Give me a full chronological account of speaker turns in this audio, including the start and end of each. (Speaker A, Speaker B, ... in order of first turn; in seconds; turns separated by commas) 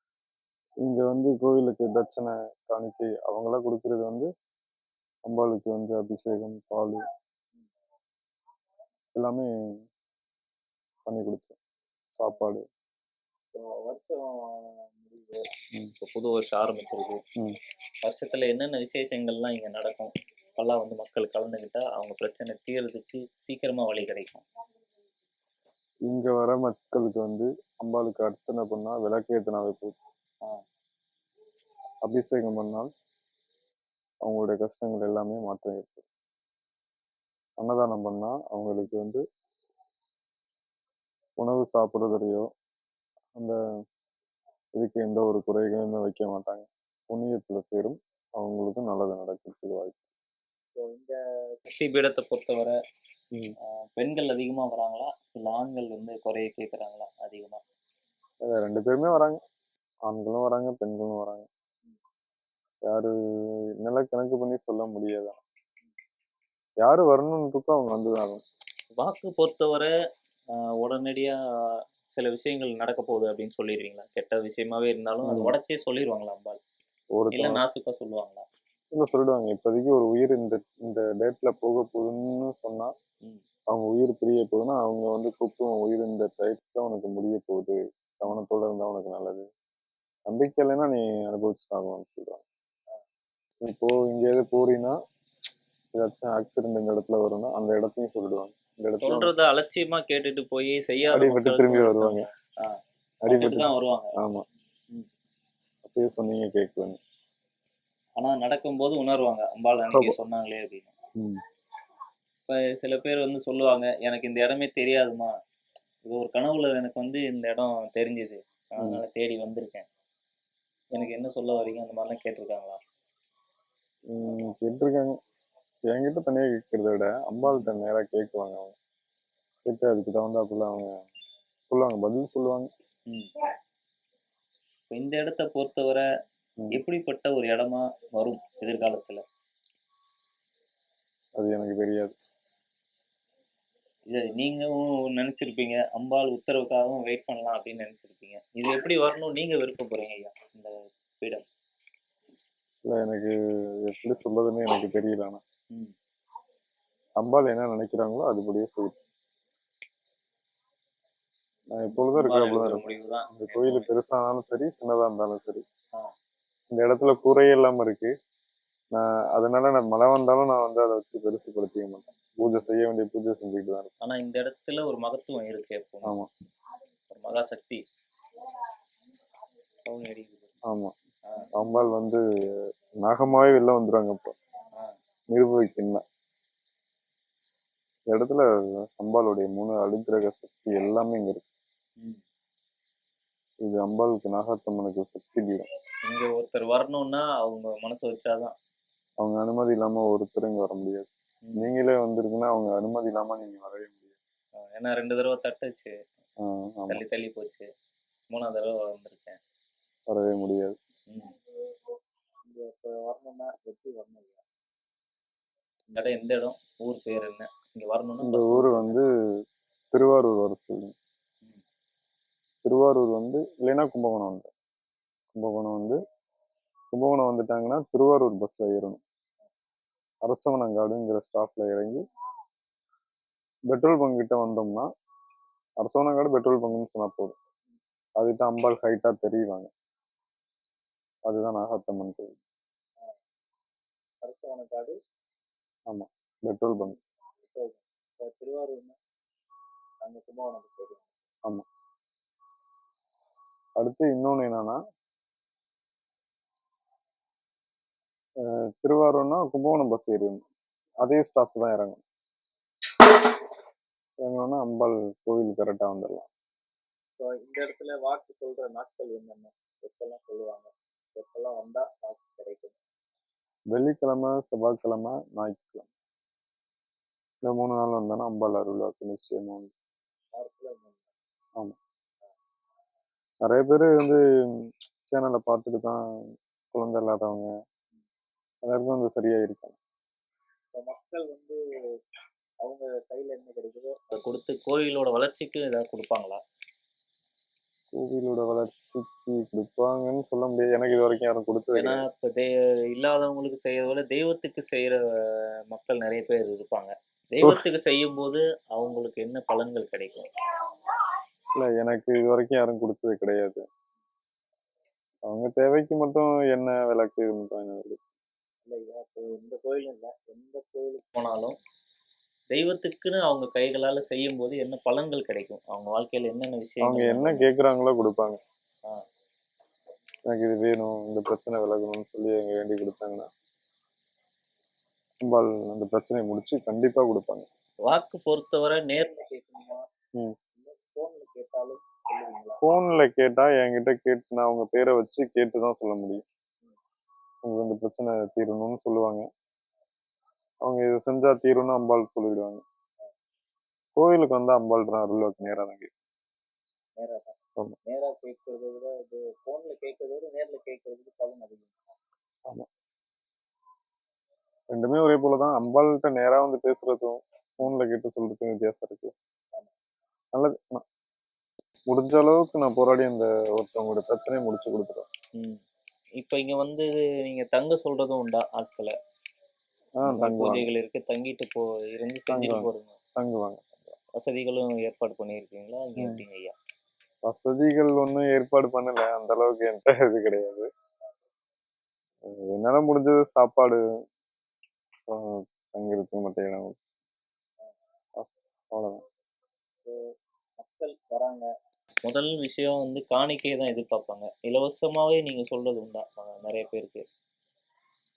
Speaker A: 0.8-4.3, Speaker A: 5.2-7.0, Speaker A: 9.1-9.8, Speaker A: 11.1-11.6, Speaker A: 12.2-12.7, Speaker B: 13.5-15.5, Speaker C: 16.0-17.2, Speaker C: 18.0-24.4, Speaker A: 26.1-30.0, Speaker A: 32.0-32.9, Speaker A: 34.2-36.0, Speaker A: 37.6-39.2, Speaker A: 41.4-42.5, Speaker A: 44.8-50.0, Speaker B: 50.8-51.6, Speaker C: 51.7-52.8, Speaker C: 53.7-57.6, Speaker A: 58.4-59.4, Speaker A: 60.0-61.5, Speaker A: 62.8-65.4, Speaker A: 66.8-68.4, Speaker C: 69.0-69.9, Speaker C: 70.5-76.6, Speaker A: 75.2-75.5, Speaker A: 77.1-77.6, Speaker C: 77.3-78.4, Speaker A: 78.9-82.9, Speaker A: 83.7-89.5, Speaker A: 90.3-92.4, Speaker A: 93.6-95.0, Speaker A: 95.9-99.3, Speaker C: 99.0-104.1, Speaker A: 101.1-102.3, Speaker A: 103.2-104.4, Speaker A: 105.8-107.0, Speaker C: 108.2-110.9, Speaker A: 109.9-110.2, Speaker A: 111.2-111.4, Speaker C: 112.5-115.3, Speaker C: 116.0-119.8, Speaker C: 120.9-122.8, Speaker A: 124.1-125.2, Speaker A: 125.9-128.8, Speaker C: 127.4-127.7, Speaker A: 129.7-131.0, Speaker A: 131.7-132.7, Speaker C: 134.9-136.0, Speaker C: 136.7-139.2, Speaker A: 141.4-142.1, Speaker C: 144.1-151.4, Speaker A: 152.8-155.4, Speaker A: 157.2-158.9, Speaker A: 161.7-165.6, Speaker C: 162.0-163.9, Speaker A: 166.7-168.1, Speaker A: 168.9-173.9, Speaker C: 174.0-176.1, Speaker A: 176.0-176.3, Speaker C: 177.1-177.8, Speaker C: 179.8-180.5, Speaker A: 180.6-180.9, Speaker C: 181.2-181.5, Speaker A: 181.5-184.3, Speaker A: 185.3-186.0, Speaker A: 188.1-191.5, Speaker A: 193.6-195.7, Speaker C: 196.1-198.5, Speaker A: 199.2-204.2, Speaker C: 201.4-201.7, Speaker C: 204.6-205.9, Speaker A: 206.4-207.0, Speaker C: 206.9-207.7, Speaker C: 208.3-209.4, Speaker A: 210.1-210.8, Speaker C: 211.1-211.3, Speaker B: 212.4-214.4, Speaker C: 215.9-219.0, Speaker A: 218.2-219.1, Speaker A: 219.9-220.9, Speaker A: 222.6-224.5, Speaker A: 225.3-226.0, Speaker A: 226.9-229.0, Speaker A: 230.2-232.1, Speaker A: 233.7-234.9, Speaker A: 235.8-237.3, Speaker A: 238.2-239.7, Speaker A: 241.3-242.4, Speaker B: 244.2-245.0, Speaker A: 245.9-247.0, Speaker B: 247.4-249.0, Speaker B: 250.0-251.1, Speaker A: 253.8-254.8, Speaker A: 258.4-260.4, Speaker A: 261.0-262.0, Speaker A: 264.2-266.3, Speaker B: 267.2-272.8, Speaker A: 273.7-275.9, Speaker A: 277.4-279.7, Speaker B: 280.3-281.1, Speaker A: 283.4-286.0, Speaker A: 286.7-287.5, Speaker A: 288.6-289.8, Speaker B: 290.7-291.6, Speaker B: 292.6-294.0, Speaker C: 294.1-296.4, Speaker A: 297.9-302.0, Speaker C: 301.7-310.3, Speaker A: 311.6-313.6, Speaker A: 315.2-318.0, Speaker B: 318.6-321.1, Speaker C: 321.1-321.6, Speaker C: 322.5-327.4, Speaker A: 326.8-328.4, Speaker A: 330.3-333.3, Speaker A: 335.2-337.5, Speaker C: 337.8-339.1, Speaker B: 339.0-339.9, Speaker B: 340.6-342.6, Speaker A: 342.6-346.2, Speaker A: 347.4-349.3, Speaker A: 350.6-352.6, Speaker A: 353.9-355.9, Speaker B: 357.0-361.9, Speaker A: 364.7-369.1, Speaker A: 370.3-370.8, Speaker A: 371.9-375.1, Speaker C: 376.2-378.9, Speaker A: 380.0-380.7, Speaker C: 380.0-382.9, Speaker A: 382.3-384.0, Speaker C: 384.1-386.5, Speaker A: 387.2-390.7, Speaker A: 392.2-393.8, Speaker A: 395.1-396.8, Speaker A: 398.2-399.0, Speaker B: 399.8-401.5, Speaker C: 402.0-407.0